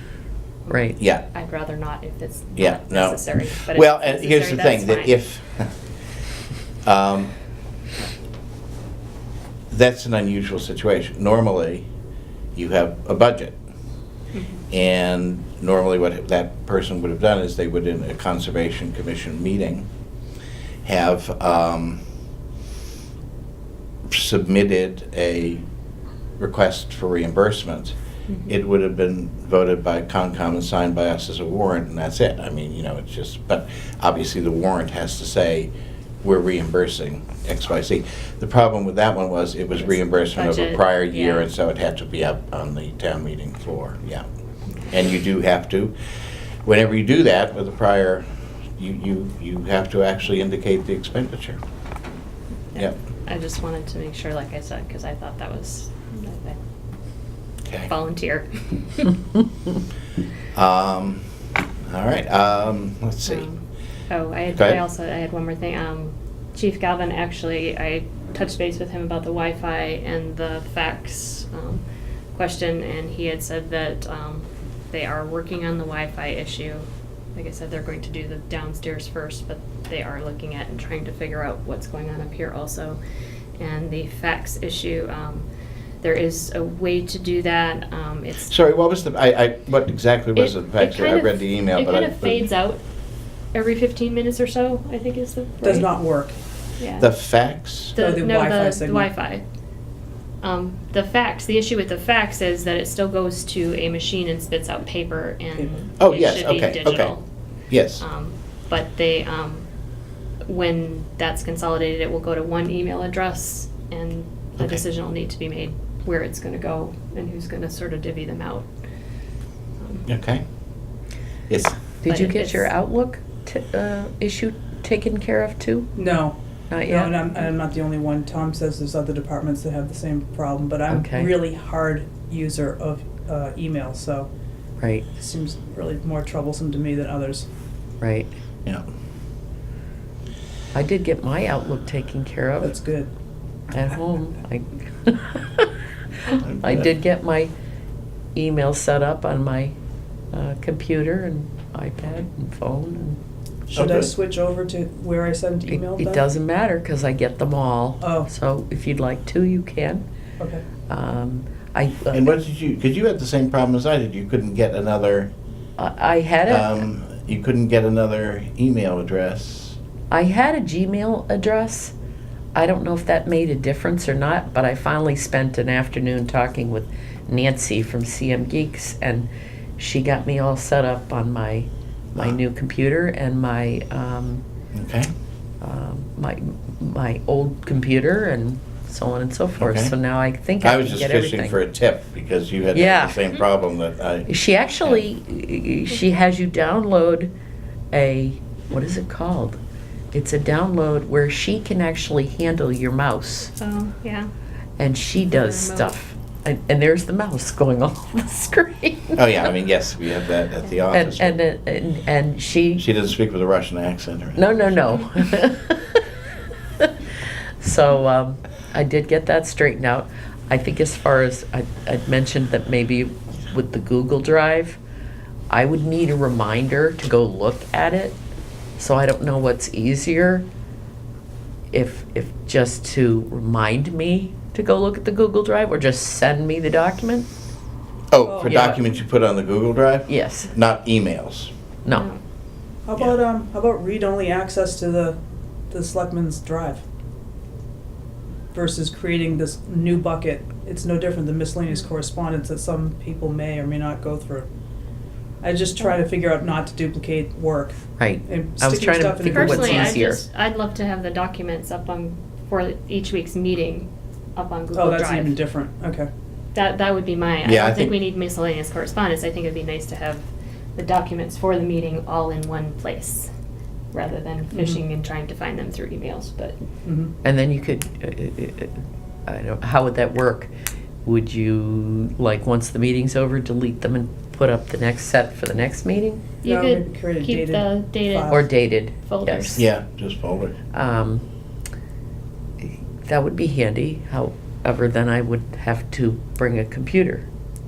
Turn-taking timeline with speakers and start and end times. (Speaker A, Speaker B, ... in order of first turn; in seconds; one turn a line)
Speaker A: 0.6-5.1
Speaker B: 0.7-0.9
Speaker C: 1.0-1.2
Speaker C: 2.5-5.7
Speaker C: 6.8-7.3
Speaker C: 9.7-11.9
Speaker C: 12.5-13.6
Speaker C: 14.7-19.9
Speaker C: 20.8-22.0
Speaker C: 24.1-25.6
Speaker C: 26.4-27.9
Speaker C: 28.5-35.7
Speaker C: 36.2-44.2
Speaker A: 39.8-41.5
Speaker C: 44.9-45.9
Speaker C: 46.6-48.2
Speaker C: 48.8-51.6
Speaker A: 52.7-56.6
Speaker C: 57.6-57.9
Speaker A: 57.9-59.1
Speaker C: 60.5-61.2
Speaker C: 61.9-63.5
Speaker A: 63.3-83.0
Speaker C: 64.5-64.8
Speaker A: 83.6-85.5
Speaker A: 86.0-88.5
Speaker C: 88.5-92.4
Speaker A: 90.3-92.8
Speaker A: 93.5-95.9
Speaker D: 95.6-96.4
Speaker A: 96.8-97.1
Speaker C: 97.0-98.0
Speaker A: 97.9-99.4
Speaker D: 98.0-99.1
Speaker A: 100.4-107.2
Speaker C: 106.0-107.1
Speaker C: 107.7-108.0
Speaker A: 108.0-109.7
Speaker A: 110.4-118.7
Speaker C: 120.0-120.4
Speaker C: 121.5-121.8
Speaker B: 122.0-126.0
Speaker A: 122.0-122.7
Speaker D: 126.0-134.3
Speaker B: 126.7-127.2
Speaker B: 130.9-131.3
Speaker D: 135.2-137.5
Speaker B: 138.0-138.3
Speaker B: 140.7-142.7
Speaker D: 142.6-143.1
Speaker B: 143.7-145.7
Speaker B: 146.3-147.5
Speaker C: 146.4-146.9
Speaker B: 148.3-149.7
Speaker B: 150.3-153.2
Speaker C: 153.7-154.1
Speaker D: 153.7-156.2
Speaker B: 155.7-160.0
Speaker D: 158.0-158.3
Speaker D: 160.4-160.6
Speaker B: 160.9-162.3
Speaker C: 162.1-165.3
Speaker B: 165.8-166.8
Speaker C: 166.5-169.8
Speaker B: 170.1-171.9
Speaker B: 172.5-184.4
Speaker C: 184.7-185.1
Speaker B: 185.6-191.6
Speaker C: 189.6-189.9
Speaker C: 190.6-195.0
Speaker B: 192.7-193.2
Speaker B: 194.3-197.3
Speaker B: 197.9-199.6
Speaker B: 200.1-203.5
Speaker A: 203.6-204.3
Speaker B: 204.8-209.5
Speaker A: 205.3-206.0
Speaker C: 209.2-211.4
Speaker B: 210.9-212.9
Speaker C: 212.8-214.6
Speaker B: 214.3-216.0
Speaker B: 217.6-224.8
Speaker B: 225.5-228.2
Speaker B: 228.8-230.5
Speaker B: 231.7-237.3
Speaker C: 238.1-241.5
Speaker D: 238.2-238.6
Speaker B: 238.4-238.8
Speaker B: 240.1-240.5
Speaker A: 241.9-242.2
Speaker D: 242.8-245.2
Speaker D: 245.7-246.8
Speaker D: 248.5-254.5
Speaker D: 255.4-260.0
Speaker B: 258.0-260.2
Speaker A: 259.2-265.4
Speaker D: 264.7-266.1
Speaker A: 266.5-273.3
Speaker C: 267.4-267.9
Speaker A: 273.9-276.6
Speaker D: 274.5-274.8
Speaker D: 276.8-277.1
Speaker B: 277.2-280.5
Speaker B: 281.0-286.2
Speaker A: 286.4-289.7
Speaker D: 286.4-288.5
Speaker B: 288.3-289.6
Speaker C: 289.5-290.5
Speaker B: 290.7-291.2
Speaker B: 293.0-297.2